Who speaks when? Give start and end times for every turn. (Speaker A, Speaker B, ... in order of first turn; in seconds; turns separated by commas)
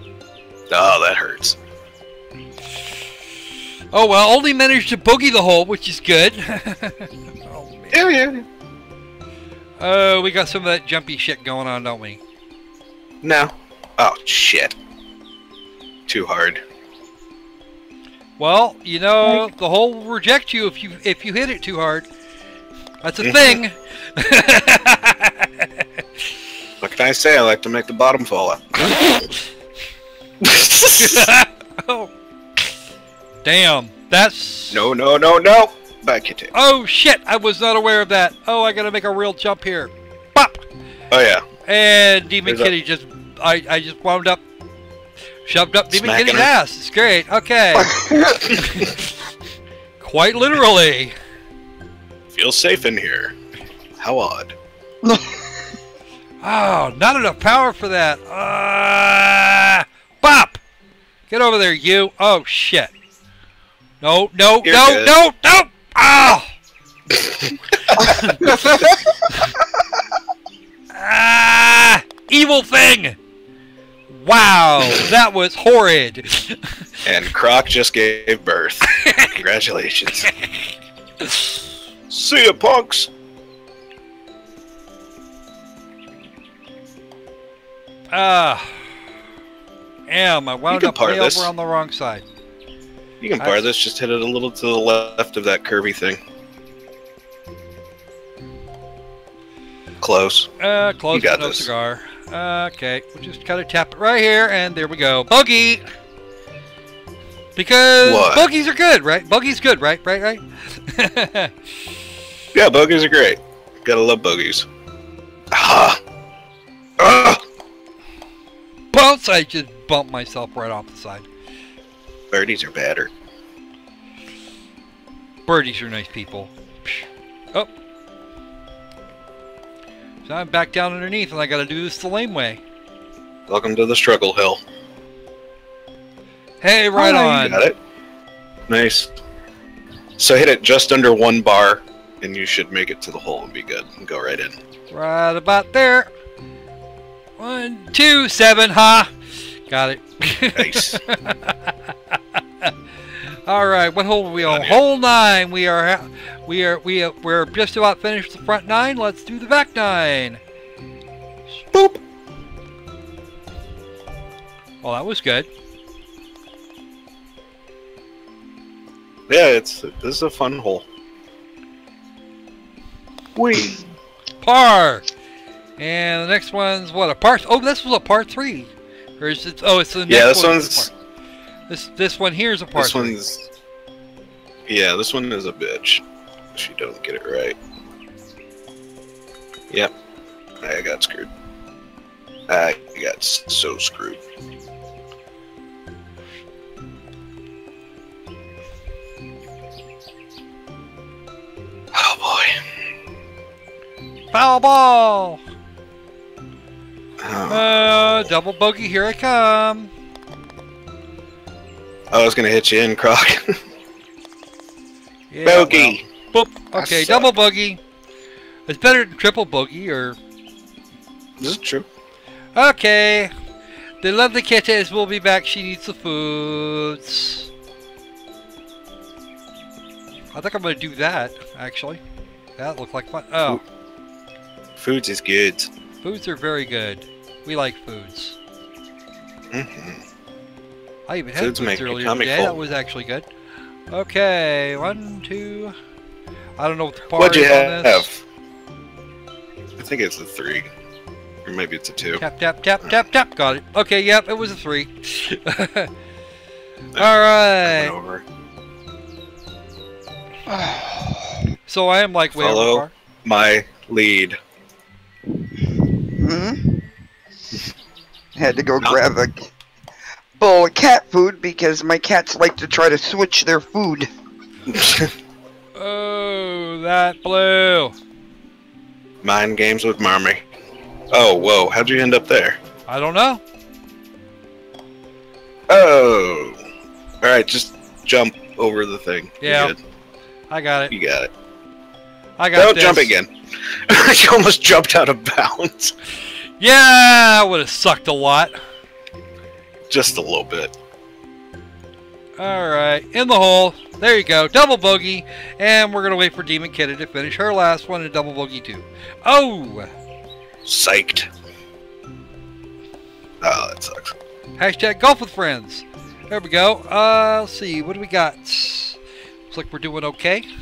Speaker A: 0.7-1.6, Speaker B: 3.9-8.0, Speaker A: 7.9-8.4, Speaker B: 9.8-12.2, Speaker A: 13.2-14.8, Speaker A: 16.1-16.6, Speaker B: 18.4-22.1, Speaker B: 23.0-25.9, Speaker A: 23.2-23.6, Speaker A: 26.8-29.3, Speaker A: 30.4-31.3, Speaker B: 31.0-32.1, Speaker B: 33.4-34.9, Speaker A: 34.7-36.5, Speaker B: 36.5-40.6, Speaker A: 41.1-41.5, Speaker B: 41.7-44.4, Speaker A: 42.5-42.7, Speaker B: 45.5-47.9, Speaker A: 45.9-46.5, Speaker C: 47.8-48.5, Speaker A: 48.5-48.9, Speaker B: 48.6-49.1, Speaker B: 50.0-51.1, Speaker A: 52.3-53.4, Speaker A: 54.0-54.5, Speaker C: 55.0-55.4, Speaker B: 56.4-60.6, Speaker B: 61.3-62.9, Speaker B: 64.0-66.5, Speaker A: 64.6-65.1, Speaker A: 67.1-69.0, Speaker B: 68.0-68.5, Speaker B: 70.9-73.2, Speaker B: 74.1-76.6, Speaker A: 77.0-80.3, Speaker B: 79.0-79.3, Speaker A: 82.1-83.1, Speaker B: 88.1-88.8, Speaker B: 90.1-92.2, Speaker A: 90.7-91.5, Speaker A: 93.2-96.2, Speaker A: 100.0-100.5, Speaker B: 100.6-105.8, Speaker A: 101.1-101.7, Speaker B: 107.6-111.5, Speaker A: 108.0-108.5, Speaker A: 112.5-114.7, Speaker A: 115.5-116.0, Speaker A: 117.0-117.4, Speaker B: 118.9-121.3, Speaker A: 122.3-123.1, Speaker B: 125.5-127.7, Speaker B: 130.2-132.6, Speaker A: 133.5-134.6, Speaker B: 136.6-137.6, Speaker A: 137.0-137.8, Speaker A: 138.7-139.1, Speaker A: 140.2-144.6, Speaker B: 144.9-146.1, Speaker B: 147.4-149.1, Speaker B: 149.7-151.7, Speaker A: 150.6-151.0, Speaker B: 153.5-160.4, Speaker A: 154.4-154.8, Speaker A: 161.7-162.0, Speaker B: 164.8-165.5, Speaker A: 169.3-170.9, Speaker A: 173.4-173.8, Speaker B: 174.4-175.1, Speaker B: 175.8-180.9, Speaker A: 180.1-180.9, Speaker B: 181.7-183.2, Speaker A: 182.8-183.5, Speaker A: 184.7-186.0, Speaker A: 186.6-187.6, Speaker A: 190.6-191.3, Speaker A: 192.5-194.2, Speaker A: 201.9-202.6, Speaker B: 204.3-205.4, Speaker A: 207.2-208.3, Speaker B: 207.5-209.9, Speaker A: 212.1-213.6, Speaker B: 215.3-217.8, Speaker A: 215.4-216.1, Speaker A: 216.8-217.3, Speaker B: 218.7-220.2, Speaker A: 221.4-221.9, Speaker B: 222.6-223.3, Speaker B: 224.0-227.5, Speaker B: 230.3-232.0, Speaker B: 232.6-233.6, Speaker A: 234.8-235.7, Speaker B: 236.0-238.4, Speaker A: 239.5-240.0, Speaker B: 241.1-243.3, Speaker A: 241.4-242.6, Speaker B: 243.9-245.7, Speaker B: 246.6-248.1, Speaker A: 247.2-248.2, Speaker A: 249.8-250.7, Speaker A: 251.5-252.2, Speaker B: 252.2-255.9, Speaker B: 257.0-257.9, Speaker A: 257.6-258.2, Speaker C: 260.5-261.2, Speaker B: 261.7-262.9, Speaker A: 262.4-264.4, Speaker C: 266.1-266.7, Speaker C: 268.4-269.5, Speaker C: 270.4-274.1, Speaker A: 274.7-275.1, Speaker B: 275.8-277.9, Speaker A: 279.2-280.4, Speaker A: 281.1-282.6, Speaker B: 282.9-283.4, Speaker A: 285.7-286.6, Speaker A: 287.2-289.8, Speaker B: 289.4-289.8, Speaker B: 290.5-290.9, Speaker A: 290.9-291.3, Speaker B: 292.4-293.1, Speaker A: 292.6-295.9, Speaker B: 296.6-298.6, Speaker A: 299.9-300.7, Speaker B: 302.4-309.9, Speaker A: 310.6-311.3, Speaker A: 313.4-314.1, Speaker B: 314.6-319.0, Speaker B: 319.5-320.5